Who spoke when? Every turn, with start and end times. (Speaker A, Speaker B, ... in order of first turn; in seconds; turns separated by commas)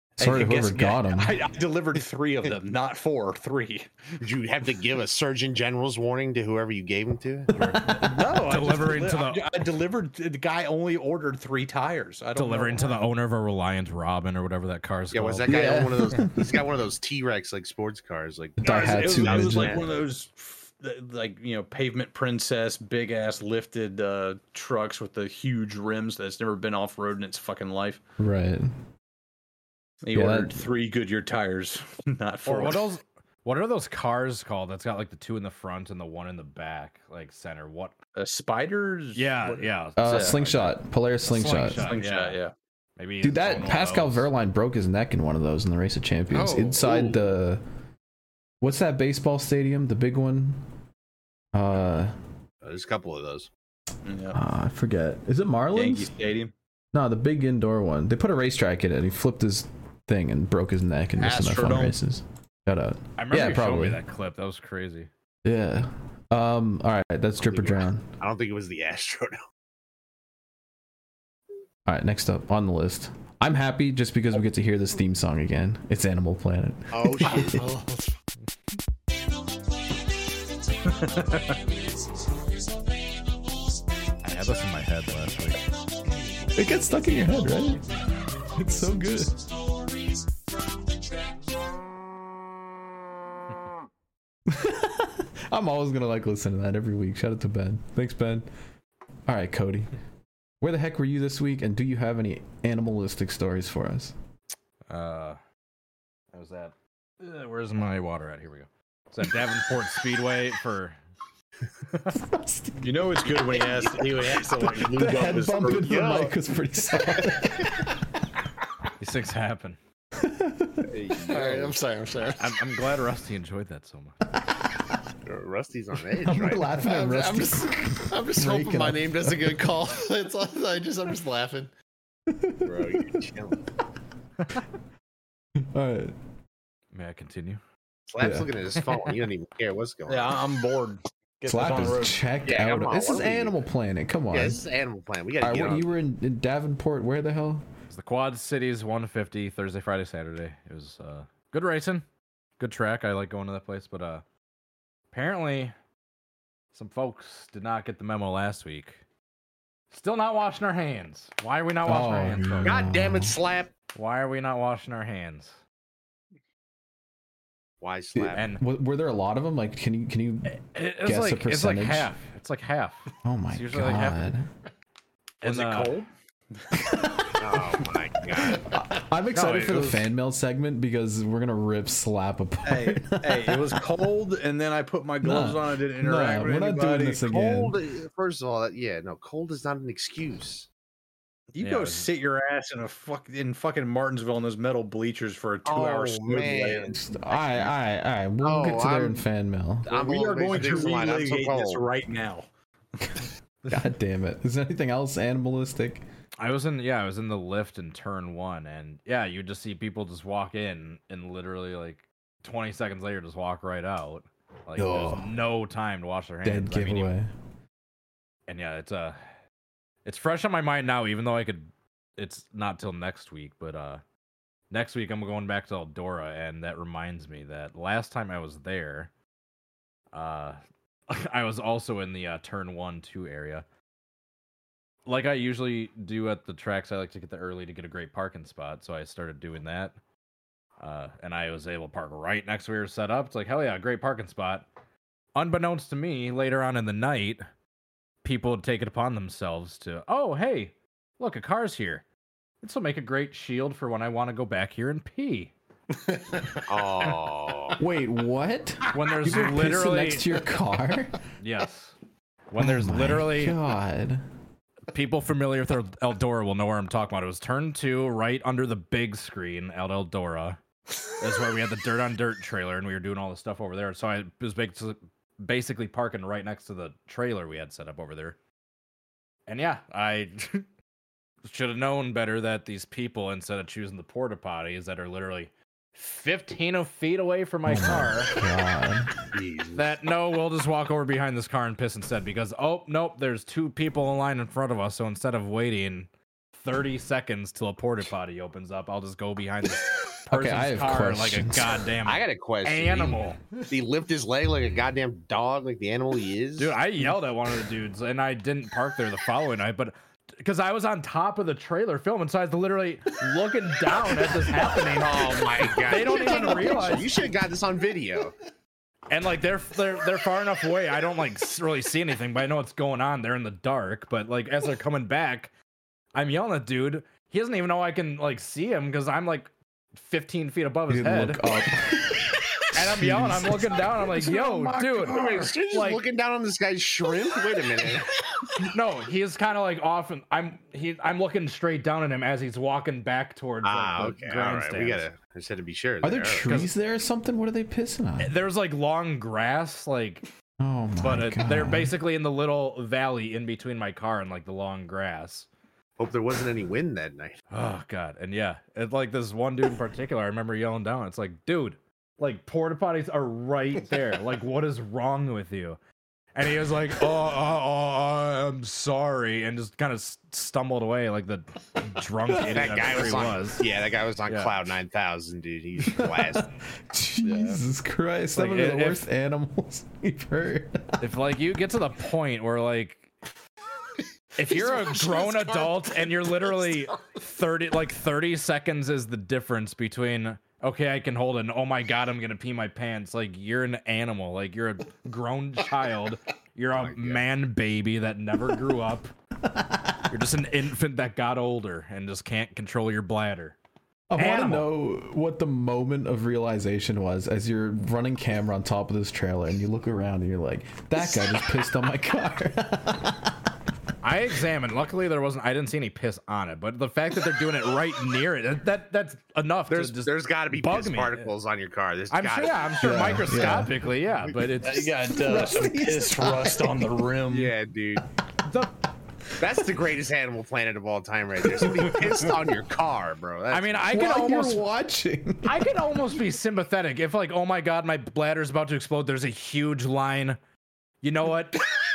Speaker A: 0.2-4.1, Speaker B: 0.2-1.4, Speaker C: 4.2-7.6, Speaker D: 7.6-9.6, Speaker A: 7.8-13.0, Speaker D: 12.4-15.5, Speaker C: 15.1-20.0, Speaker B: 15.5-16.6, Speaker B: 18.6-19.8, Speaker A: 18.6-28.0, Speaker B: 28.2-28.7, Speaker A: 30.0-32.9, Speaker B: 30.1-30.6, Speaker D: 32.5-38.0, Speaker A: 38.2-40.4, Speaker D: 39.1-42.4, Speaker B: 40.0-41.9, Speaker A: 41.8-42.5, Speaker D: 43.0-44.3, Speaker B: 43.2-47.6, Speaker E: 46.4-47.2, Speaker B: 48.6-50.6, Speaker B: 51.5-52.2, Speaker C: 52.6-53.5, Speaker A: 54.0-54.4, Speaker B: 54.3-56.1, Speaker A: 55.7-56.5, Speaker B: 56.9-64.0, Speaker A: 61.2-62.0, Speaker D: 63.2-65.1, Speaker B: 65.4-68.1, Speaker C: 67.4-69.4, Speaker B: 71.9-77.7, Speaker C: 76.9-77.8, Speaker A: 81.0-81.5, Speaker D: 84.2-85.7, Speaker B: 86.5-87.9, Speaker B: 88.5-89.4, Speaker B: 94.5-98.5, Speaker B: 99.3-99.9, Speaker B: 100.6-104.2, Speaker D: 104.9-105.4, Speaker D: 106.3-111.0, Speaker B: 112.1-113.3, Speaker A: 112.8-115.9, Speaker B: 114.6-117.9, Speaker C: 114.7-116.4, Speaker D: 119.0-119.8, Speaker B: 120.2-120.9, Speaker C: 120.9-121.8, Speaker E: 121.3-122.8, Speaker D: 122.4-124.2, Speaker C: 125.3-126.7, Speaker B: 126.2-129.7, Speaker E: 126.7-131.7, Speaker B: 132.3-132.8, Speaker C: 132.6-133.6, Speaker B: 135.7-136.1, Speaker D: 136.9-137.6, Speaker C: 138.1-140.4, Speaker B: 138.2-138.5, Speaker D: 138.8-139.1, Speaker A: 140.1-142.2, Speaker B: 141.5-144.6, Speaker C: 142.4-143.6, Speaker C: 144.3-145.9, Speaker B: 145.4-147.7, Speaker D: 147.9-152.1, Speaker D: 152.6-154.2, Speaker D: 155.1-155.8, Speaker D: 156.7-159.0, Speaker D: 159.9-162.9, Speaker B: 161.8-163.3, Speaker C: 162.6-163.7, Speaker D: 163.9-165.6, Speaker C: 167.8-168.4, Speaker B: 168.2-172.1, Speaker D: 168.3-168.6, Speaker D: 170.5-174.3, Speaker B: 173.2-174.4, Speaker D: 175.4-176.0, Speaker A: 175.4-176.1, Speaker C: 177.4-178.6, Speaker B: 178.4-183.8, Speaker D: 179.3-180.1, Speaker A: 182.7-187.3, Speaker B: 185.2-187.8, Speaker C: 187.3-190.7, Speaker A: 191.5-197.6, Speaker D: 191.6-192.1, Speaker C: 195.7-197.1, Speaker B: 197.1-199.9, Speaker C: 198.4-199.2, Speaker C: 199.9-201.8, Speaker A: 199.9-202.5, Speaker B: 203.7-206.0, Speaker D: 206.4-217.1, Speaker B: 214.8-215.3, Speaker B: 216.4-217.3, Speaker D: 218.5-219.2, Speaker D: 220.1-224.0, Speaker D: 224.7-229.1, Speaker D: 230.1-233.7, Speaker D: 235.1-240.0, Speaker D: 240.8-244.7, Speaker D: 245.3-247.4, Speaker D: 248.2-252.1, Speaker D: 252.6-255.5, Speaker E: 256.3-256.6, Speaker C: 256.7-257.8, Speaker B: 257.8-261.2, Speaker D: 258.9-260.4, Speaker D: 261.4-262.0, Speaker D: 262.5-263.6, Speaker B: 262.6-264.2, Speaker D: 264.9-270.6, Speaker D: 271.2-278.4, Speaker D: 279.5-280.6, Speaker D: 281.4-288.4, Speaker B: 287.7-289.1, Speaker C: 289.3-289.9, Speaker D: 289.8-303.4, Speaker B: 300.3-301.8, Speaker C: 302.0-306.8, Speaker D: 306.6-317.2, Speaker C: 314.9-318.4, Speaker D: 319.1-325.5, Speaker D: 326.1-331.4, Speaker B: 330.9-333.8, Speaker D: 332.7-336.0, Speaker C: 334.9-338.1, Speaker D: 338.6-345.1, Speaker C: 343.6-346.6, Speaker B: 346.0-348.3, Speaker D: 346.4-346.7, Speaker D: 348.2-350.3, Speaker B: 350.6-351.9, Speaker D: 351.0-355.5, Speaker C: 356.0-357.4, Speaker D: 357.5-365.8, Speaker D: 366.4-373.7, Speaker C: 372.5-376.5, Speaker D: 374.3-374.6, Speaker B: 375.8-381.1, Speaker D: 378.3-379.0, Speaker D: 381.0-383.1, Speaker D: 384.4-399.1, Speaker E: 384.4-386.4, Speaker C: 396.7-397.2, Speaker B: 399.4-400.2, Speaker D: 400.1-403.6, Speaker B: 404.1-413.5, Speaker D: 404.2-404.7, Speaker D: 414.0-421.3, Speaker C: 419.7-422.8, Speaker D: 422.1-424.9, Speaker B: 422.8-423.8, Speaker A: 424.6-427.5, Speaker B: 425.1-427.1, Speaker C: 427.3-428.0, Speaker D: 428.4-428.7, Speaker C: 429.4-433.9, Speaker D: 433.5-434.6, Speaker B: 433.9-435.7, Speaker D: 435.4-440.4, Speaker D: 441.0-441.7